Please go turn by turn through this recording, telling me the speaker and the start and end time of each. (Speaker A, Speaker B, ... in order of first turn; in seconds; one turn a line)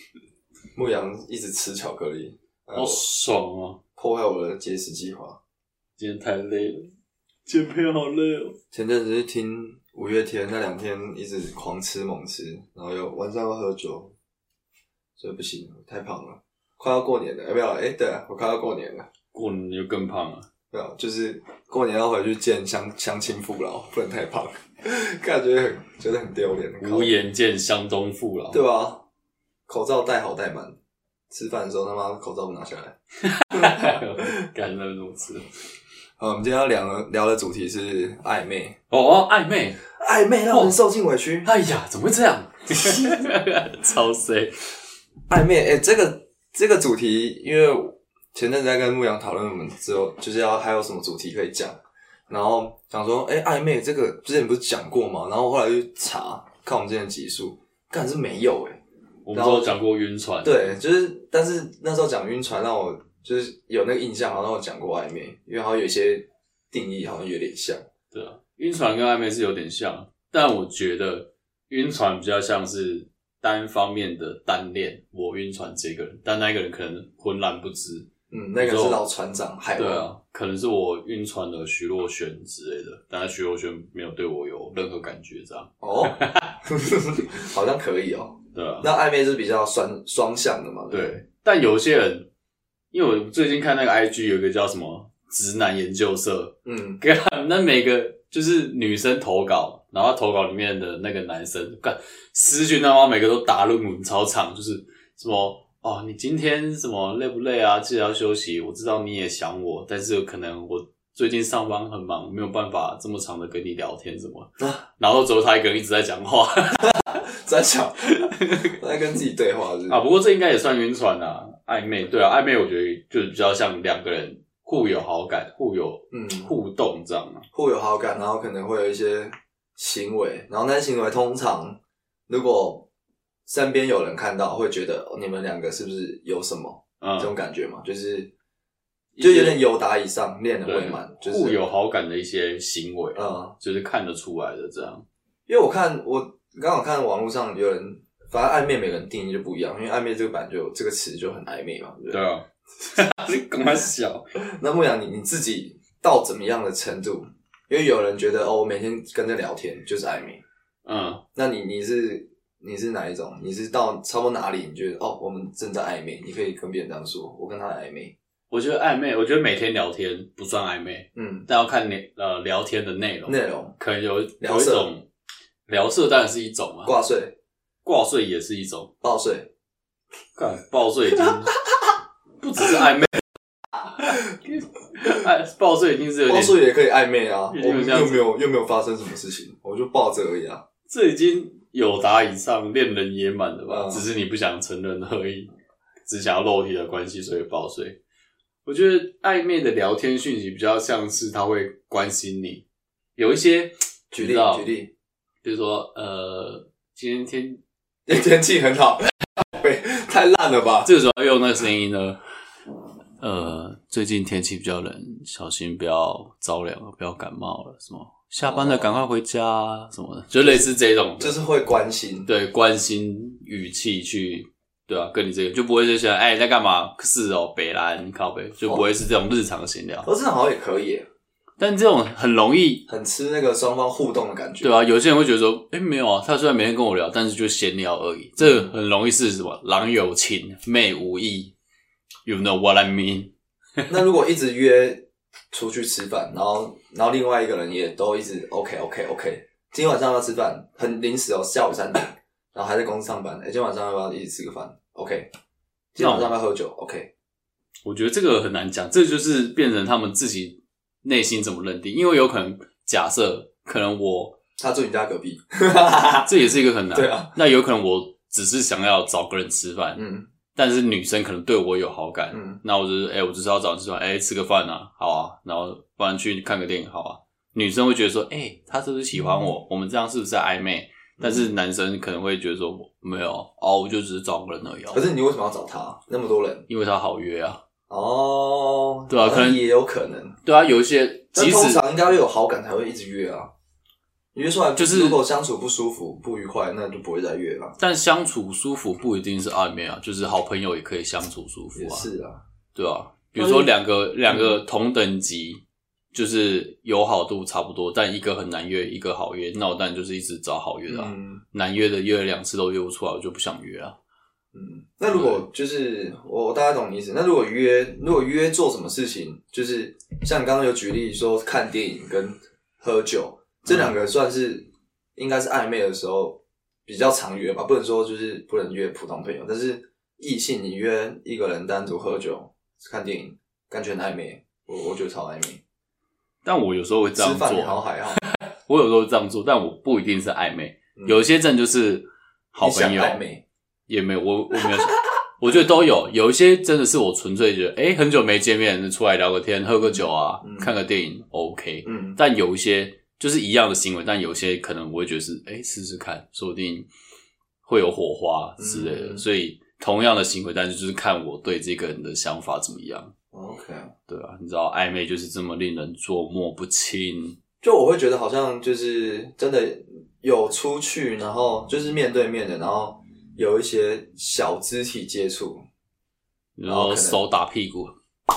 Speaker A: 0.8-3.0
Speaker B: 2.7-3.8
Speaker A: 4.0-5.4
Speaker B: 6.0-6.9
Speaker B: 7.5-8.6
Speaker A: 8.7-14.1
Speaker A: 15.2-19.1
Speaker B: 19.3-20.5
Speaker A: 20.7-27.2
Speaker B: 26.8-28.6
Speaker A: 28.5-29.0
Speaker A: 29.7-30.8
Speaker A: 31.3-33.0
Speaker B: 33.2-35.5
Speaker A: 33.5-34.3
Speaker A: 36.2-38.8
Speaker B: 38.9-39.8
Speaker A: 40.0-41.5
Speaker B: 41.4-44.6
Speaker A: 45.3-58.8
Speaker B: 59.3-60.8
Speaker A: 59.3-59.8
Speaker A: 60.4-67.8
Speaker B: 68.1-79.0
Speaker A: 78.3-80.1
Speaker B: 79.7-86.6
Speaker A: 85.8-91.1
Speaker B: 88.5-88.9
Speaker B: 90.9-92.3
Speaker B: 92.9-117.0
Speaker A: 96.7-97.0
Speaker A: 114.6-114.8
Speaker A: 116.8-120.0
Speaker B: 118.1-118.8
Speaker B: 119.9-127.5
Speaker A: 126.1-126.5
Speaker A: 127.5-131.8
Speaker A: 132.3-132.9
Speaker A: 133.5-138.3
Speaker B: 137.0-137.3
Speaker B: 139.2-139.6
Speaker A: 139.2-141.6
Speaker B: 140.7-145.1
Speaker A: 143.2-143.6
Speaker A: 145.5-152.2
Speaker B: 152.1-154.3
Speaker A: 154.5-160.4
Speaker B: 160.8-161.2
Speaker A: 161.3-168.2
Speaker B: 168.5-175.1
Speaker A: 171.2-171.5
Speaker A: 173.3-173.8
Speaker A: 174.4-174.9
Speaker B: 175.7-176.9
Speaker A: 176.8-177.3
Speaker B: 177.8-178.9
Speaker A: 179.0-179.5
Speaker B: 180.4-181.6
Speaker B: 182.4-183.2
Speaker B: 184.0-186.6
Speaker A: 186.3-190.6
Speaker B: 187.5-188.3
Speaker B: 190.9-195.5
Speaker A: 193.7-194.1
Speaker B: 196.1-198.0
Speaker B: 198.7-202.7
Speaker B: 203.2-204.7
Speaker A: 204.1-204.9
Speaker B: 205.4-207.6
Speaker A: 208.1-210.9
Speaker B: 210.8-212.2
Speaker B: 213.2-221.4
Speaker A: 218.5-219.0
Speaker A: 220.4-220.7
Speaker A: 221.2-222.3
Speaker B: 222.3-230.1
Speaker A: 230.0-231.1
Speaker B: 231.6-232.9
Speaker A: 232.9-234.7
Speaker B: 234.6-241.5
Speaker A: 238.4-238.7
Speaker B: 242.2-243.9
Speaker A: 243.9-255.3
Speaker A: 255.9-257.1
Speaker B: 256.0-256.4
Speaker B: 257.9-264.4
Speaker A: 264.6-267.4
Speaker B: 266.2-270.0
Speaker A: 270.0-270.3
Speaker B: 270.6-285.1
Speaker A: 272.3-272.6
Speaker A: 281.2-281.5
Speaker A: 284.9-286.7
Speaker B: 286.7-287.6
Speaker A: 287.9-290.4
Speaker B: 289.1-289.6
Speaker B: 290.4-291.9
Speaker A: 291.3-293.5
Speaker A: 294.3-297.8
Speaker B: 294.8-295.2
Speaker B: 297.8-302.1
Speaker A: 301.8-302.4
Speaker B: 302.8-305.6
Speaker A: 303.4-303.7
Speaker A: 304.3-304.6
Speaker B: 306.1-314.0
Speaker A: 310.9-311.4
Speaker A: 314.5-335.6
Speaker B: 315.1-315.4
Speaker B: 323.7-323.9
Speaker B: 336.4-343.2
Speaker A: 337.2-338.2
Speaker A: 342.6-343.4
Speaker B: 343.9-356.9
Speaker A: 349.8-350.7
Speaker A: 351.9-352.2
Speaker B: 357.6-363.1
Speaker A: 358.6-359.2
Speaker A: 363.3-363.9
Speaker B: 364.1-367.4
Speaker A: 367.6-375.6
Speaker B: 376.6-377.9
Speaker A: 376.7-377.2